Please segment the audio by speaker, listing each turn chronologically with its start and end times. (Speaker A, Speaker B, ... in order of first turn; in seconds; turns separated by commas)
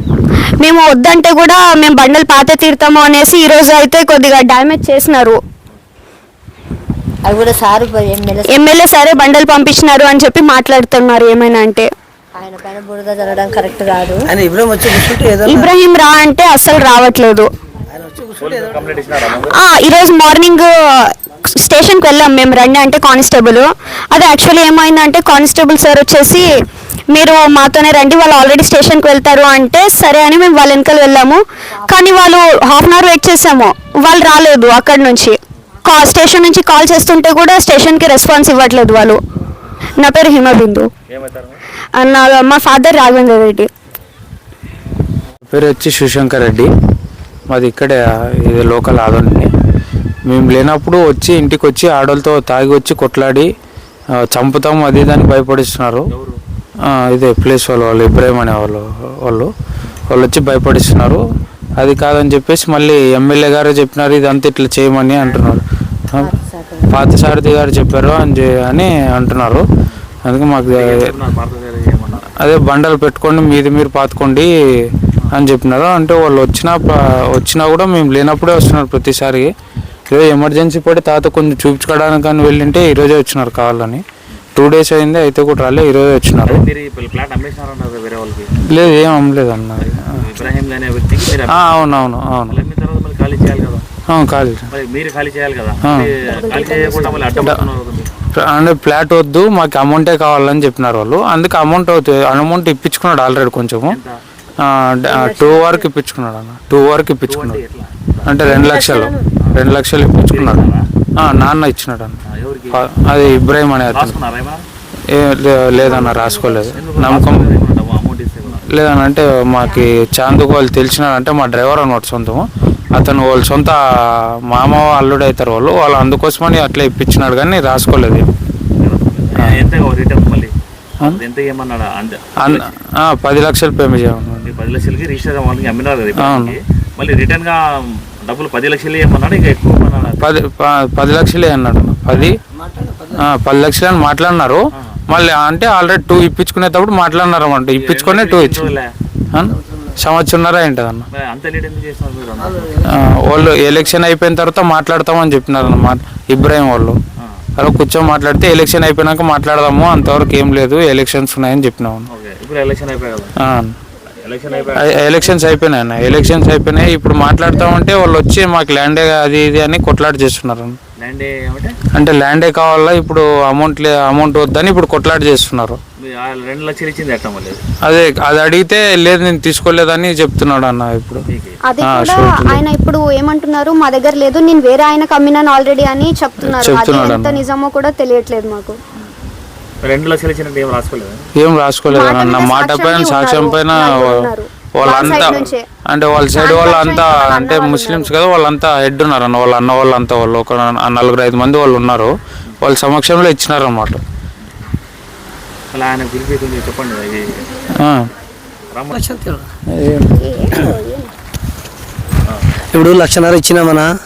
Speaker A: 0.6-5.4, Speaker B: 7.2-8.7, Speaker A: 8.5-11.9, Speaker B: 12.3-14.3, Speaker C: 14.2-15.7, Speaker A: 15.5-17.5, Speaker C: 17.9-18.9, Speaker D: 18.4-19.6, Speaker A: 19.5-26.5, Speaker A: 27.1-39.2, Speaker A: 40.0-40.9, Speaker D: 41.1-41.6, Speaker A: 41.9-43.7, Speaker E: 45.5-46.7, Speaker E: 47.5-49.5, Speaker E: 50.2-53.5, Speaker E: 54.2-56.1, Speaker D: 56.1-56.4, Speaker E: 56.9-59.5, Speaker E: 60.1-61.2, Speaker E: 61.8-66.3, Speaker D: 65.2-65.5, Speaker B: 66.2-67.0, Speaker E: 66.9-69.6, Speaker E: 70.2-71.0, Speaker D: 70.7-72.3, Speaker E: 72.4-74.5, Speaker E: 75.3-79.5, Speaker E: 80.1-84.0, Speaker E: 84.5-86.6, Speaker D: 86.5-89.2, Speaker E: 88.7-90.2, Speaker D: 89.8-93.8, Speaker E: 91.4-92.6, Speaker E: 94.1-94.7, Speaker D: 94.7-98.1, Speaker E: 95.8-96.2, Speaker B: 96.3-97.5, Speaker E: 97.4-97.6, Speaker E: 98.3-104.0, Speaker D: 103.9-104.2, Speaker E: 104.6-107.6, Speaker B: 105.1-105.8, Speaker D: 107.3-108.5, Speaker E: 108.2-110.7, Speaker B: 108.4-109.3, Speaker D: 110.3-110.8, Speaker E: 111.2-112.2, Speaker D: 112.3-112.8, Speaker E: 112.7-114.2, Speaker D: 113.9-114.6, Speaker E: 115.1-117.5, Speaker B: 115.8-116.7, Speaker D: 116.7-118.7, Speaker E: 118.7-123.8, Speaker E: 124.5-128.3, Speaker D: 128.8-132.7, Speaker E: 129.4-129.7, Speaker E: 132.4-134.5, Speaker D: 134.4-140.3, Speaker E: 136.2-136.6, Speaker E: 140.2-142.4, Speaker C: 142.5-143.2, Speaker E: 143.2-148.7, Speaker D: 147.7-148.9, Speaker E: 149.3-151.1, Speaker C: 149.5-149.9, Speaker D: 151.1-152.7, Speaker C: 152.4-152.9, Speaker E: 152.9-157.0, Speaker E: 157.6-162.1, Speaker D: 162.1-163.3, Speaker E: 163.4-163.8, Speaker D: 164.2-165.0, Speaker E: 164.8-170.8, Speaker D: 171.0-171.8, Speaker E: 171.9-175.8, Speaker D: 176.0-177.6, Speaker E: 177.8-181.3, Speaker D: 181.3-181.6, Speaker A: 181.6-188.8, Speaker E: 181.8-182.6, Speaker E: 186.4-187.4, Speaker D: 189.8-191.2, Speaker E: 191.4-204.0, Speaker A: 191.9-195.6, Speaker D: 195.0-195.5, Speaker A: 196.3-198.1, Speaker D: 205.7-207.4, Speaker E: 207.8-208.1, Speaker D: 208.7-209.0, Speaker C: 208.9-209.5, Speaker E: 209.7-210.1, Speaker A: 210.1-211.1, Speaker C: 212.7-213.9